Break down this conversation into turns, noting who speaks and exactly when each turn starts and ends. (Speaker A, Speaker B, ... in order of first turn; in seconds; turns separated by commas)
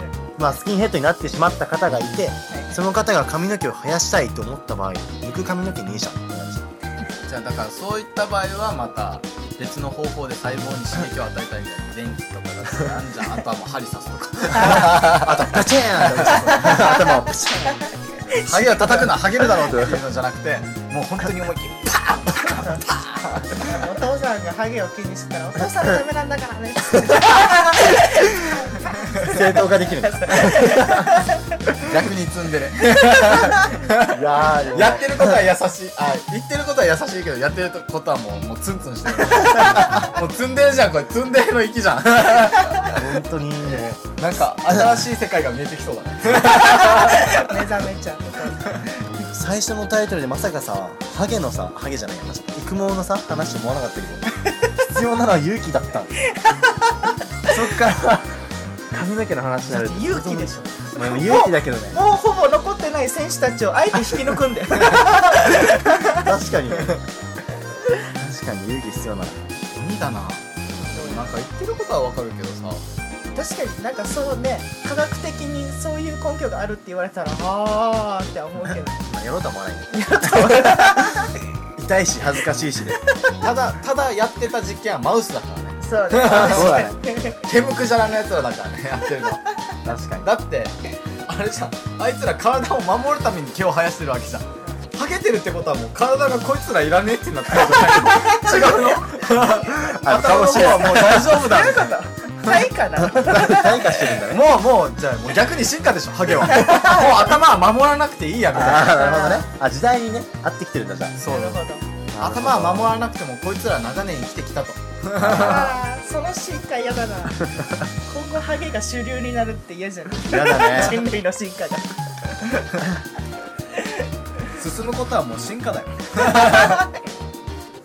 Speaker A: 0.4-6.7, Speaker B: 2.5-2.8, Speaker C: 7.2-16.9, Speaker A: 14.6-17.8, Speaker B: 16.4-19.2, Speaker C: 18.3-23.6, Speaker A: 19.5-20.0, Speaker B: 22.4-22.9, Speaker B: 23.4-29.4, Speaker A: 27.0-28.6, Speaker A: 29.2-31.2, Speaker B: 30.0-31.6, Speaker C: 31.8-43.0, Speaker B: 33.2-33.8, Speaker A: 34.1-35.4, Speaker A: 39.5-40.0, Speaker A: 42.8-45.0, Speaker C: 44.2-47.6, Speaker B: 46.7-49.0, Speaker A: 49.2-54.2, Speaker A: 54.8-56.1, Speaker B: 56.3-57.5, Speaker A: 57.5-58.4, Speaker A: 58.9-62.0, Speaker B: 59.7-66.3, Speaker A: 66.1-67.0, Speaker A: 68.2-69.5, Speaker C: 69.7-72.8, Speaker A: 70.7-71.1, Speaker B: 70.9-71.3, Speaker B: 73.3-79.0, Speaker A: 79.0-83.0, Speaker B: 79.9-81.3, Speaker C: 83.4-86.9, Speaker B: 85.8-87.4, Speaker A: 86.2-87.0, Speaker C: 87.4-89.5, Speaker A: 89.8-90.3, Speaker C: 90.2-102.7, Speaker A: 99.8-101.7, Speaker B: 100.8-104.1, Speaker A: 103.0-104.6, Speaker C: 104.2-109.1, Speaker B: 106.5-107.1, Speaker A: 108.5-111.2, Speaker B: 108.9-109.5, Speaker C: 111.2-111.6, Speaker B: 111.2-111.8, Speaker A: 112.1-113.0, Speaker C: 112.2-115.8, Speaker A: 115.2-115.7, Speaker B: 115.2-122.8, Speaker A: 120.2-121.0, Speaker C: 124.5-126.8, Speaker B: 126.2-126.9